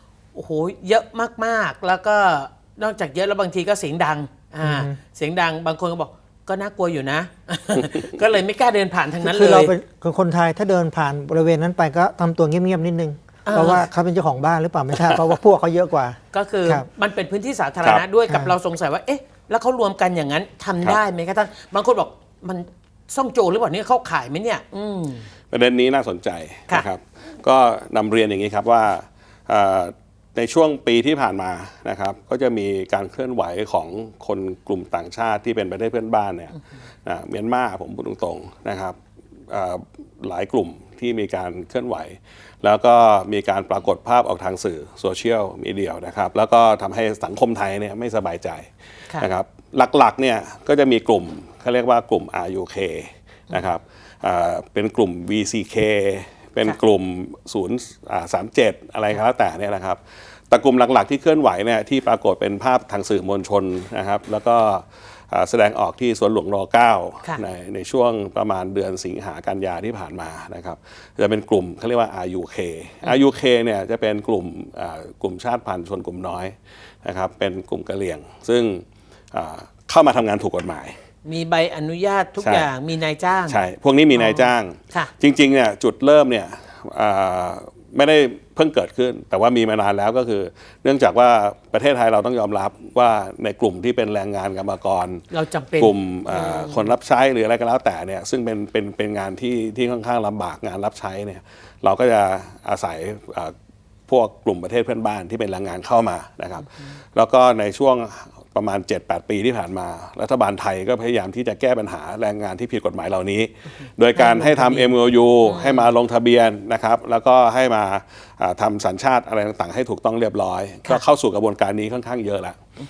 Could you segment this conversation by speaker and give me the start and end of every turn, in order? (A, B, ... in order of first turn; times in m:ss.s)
0:00.4-0:09.7 A
0:04.6-0:04.9 B
0:09.2-0:16.9 B
0:13.4-0:13.8 A
0:16.3-0:25.3 A
0:18.3-0:18.5 B
0:25.5-0:39.0 C
0:39.5-1:21.0 C
1:21.2-1:23.6 A
1:22.4-1:22.7 C
1:23.5-1:35.2 C
1:24.2-1:25.1 A
1:35.3-1:36.9 A
1:35.8-1:43.6 C
1:44.1-2:02.6 C
1:54.2-1:55.9 A